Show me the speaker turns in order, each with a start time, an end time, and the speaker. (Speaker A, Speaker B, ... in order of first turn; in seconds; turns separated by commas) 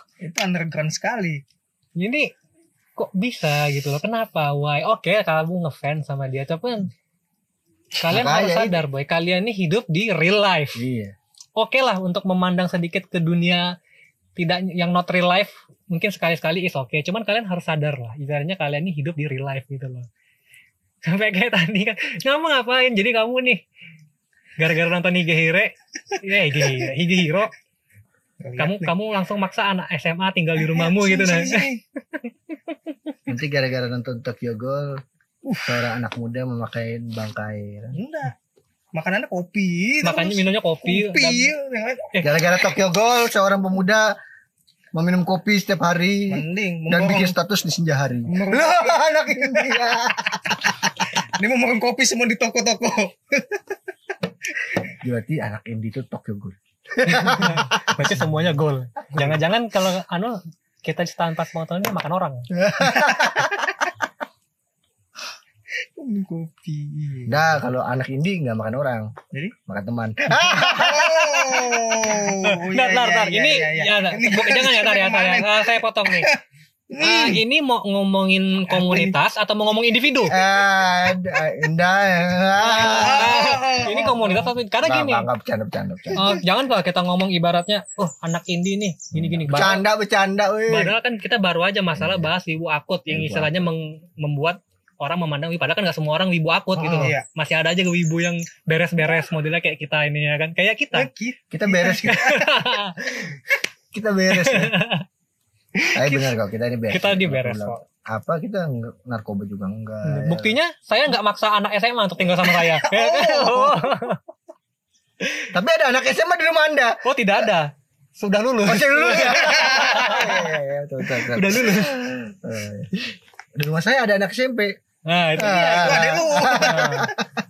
Speaker A: 0.2-1.4, Speaker B: 1.9-2.3, Speaker B: 3.0-6.9, Speaker B: 8.0-10.8, Speaker C: 8.0-8.8, Speaker C: 10.8-11.2, Speaker B: 11.6-13.7, Speaker B: 14.3-20.1, Speaker B: 21.0-23.6, Speaker B: 24.6-27.5, Speaker A: 28.4-28.9, Speaker B: 28.6-32.3, Speaker A: 30.6-31.8, Speaker C: 33.3-35.0, Speaker A: 35.5-35.8, Speaker C: 35.6-38.0, Speaker A: 37.9-38.3, Speaker A: 38.9-42.2, Speaker B: 40.0-41.5, Speaker C: 42.2-44.1, Speaker C: 44.9-50.9, Speaker A: 46.3-47.3, Speaker A: 48.3-49.9, Speaker A: 51.2-53.7, Speaker C: 55.0-58.4, Speaker B: 57.2-62.5, Speaker C: 62.5-63.7, Speaker A: 62.9-63.5, Speaker A: 66.0-67.6, Speaker C: 67.3-69.1, Speaker C: 69.7-71.3, Speaker A: 70.5-76.4, Speaker B: 72.1-76.3, Speaker A: 76.9-77.4, Speaker B: 77.0-80.3, Speaker A: 78.7-79.2, Speaker C: 80.3-83.4, Speaker A: 80.3-81.4, Speaker A: 82.6-84.5, Speaker B: 82.7-85.3, Speaker C: 84.8-86.4, Speaker B: 86.2-89.8, Speaker C: 89.1-90.9, Speaker B: 90.7-101.1, Speaker C: 92.0-92.3, Speaker C: 93.1-93.7, Speaker A: 96.8-97.2, Speaker C: 96.8-97.1, Speaker A: 100.9-102.6, Speaker C: 101.5-102.2, Speaker B: 102.1-103.4, Speaker C: 103.9-104.7, Speaker B: 104.3-105.0, Speaker C: 105.9-110.6, Speaker B: 106.0-106.3, Speaker B: 106.9-107.8, Speaker B: 110.0-114.2, Speaker A: 112.4-113.8, Speaker C: 115.5-117.5, Speaker B: 117.0-120.5, Speaker C: 118.6-124.7, Speaker A: 119.2-120.2, Speaker B: 121.1-122.0, Speaker B: 125.1-127.1, Speaker C: 125.3-127.1, Speaker A: 125.5-127.1